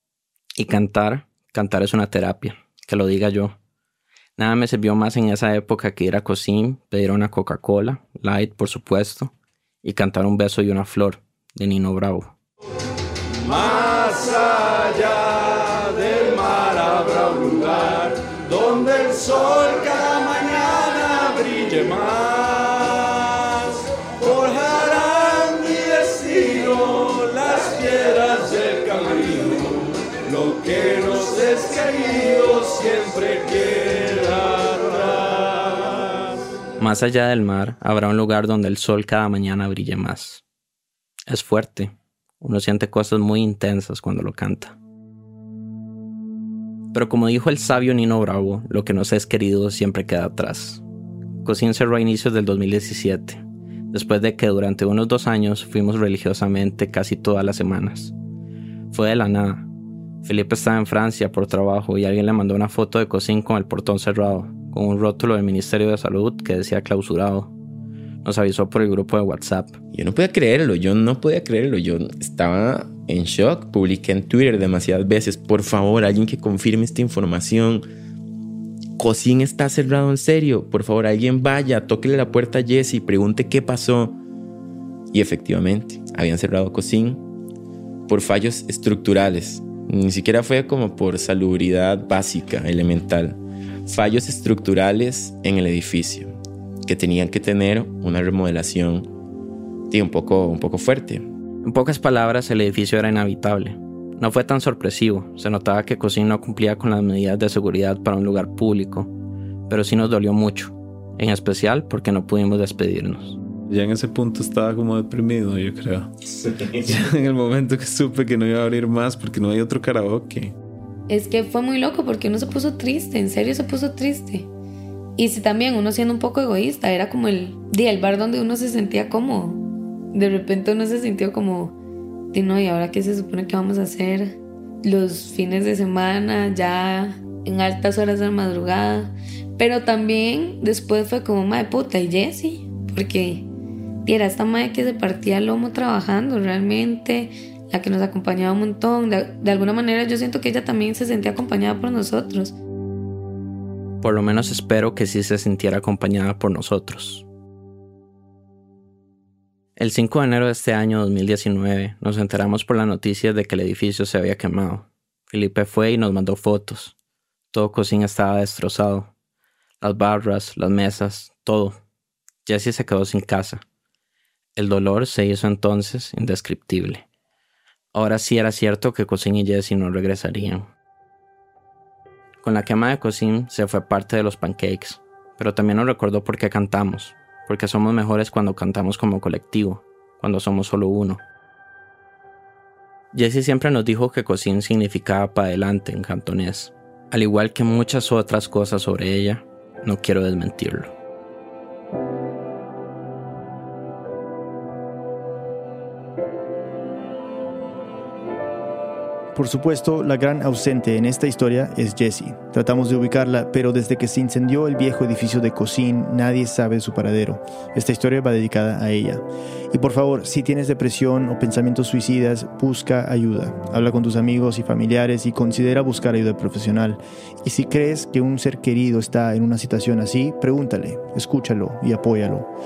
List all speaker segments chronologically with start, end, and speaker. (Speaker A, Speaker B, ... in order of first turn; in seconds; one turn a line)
Speaker A: 0.6-3.5
Speaker A: 4.4-12.3
Speaker B: 13.4-35.9
Speaker A: 36.8-40.4
Speaker A: 41.3-44.8
Speaker A: 46.9-50.8
Speaker A: 51.4-58.1
Speaker A: 58.9-59.7
Speaker A: 60.2-67.5
Speaker A: 68.2-69.8
Speaker C: 69.9-77.8
Speaker C: 79.0-84.2
Speaker C: 85.1-87.2
Speaker C: 88.1-96.3
Speaker C: 96.8-99.1
Speaker C: 99.9-101.2
Speaker A: 101.6-109.1
Speaker A: 109.7-113.4
Speaker D: 113.7-116.1
Speaker D: 116.6-120.5
Speaker E: 121.1-124.5
Speaker E: 125.2-131.7
Speaker E: 132.3-143.4
Speaker E: 144.1-152.5
Speaker A: 154.0-157.2
Speaker A: 159.8-166.9
Speaker A: 167.5-169.1
Speaker A: 169.8-171.8
Speaker A: 172.4-173.6
Speaker A: 174.6-177.0
Speaker A: 177.9-180.7
Speaker A: 182.4-191.2
Speaker A: 193.1-200.9
Speaker F: 209.3-232.5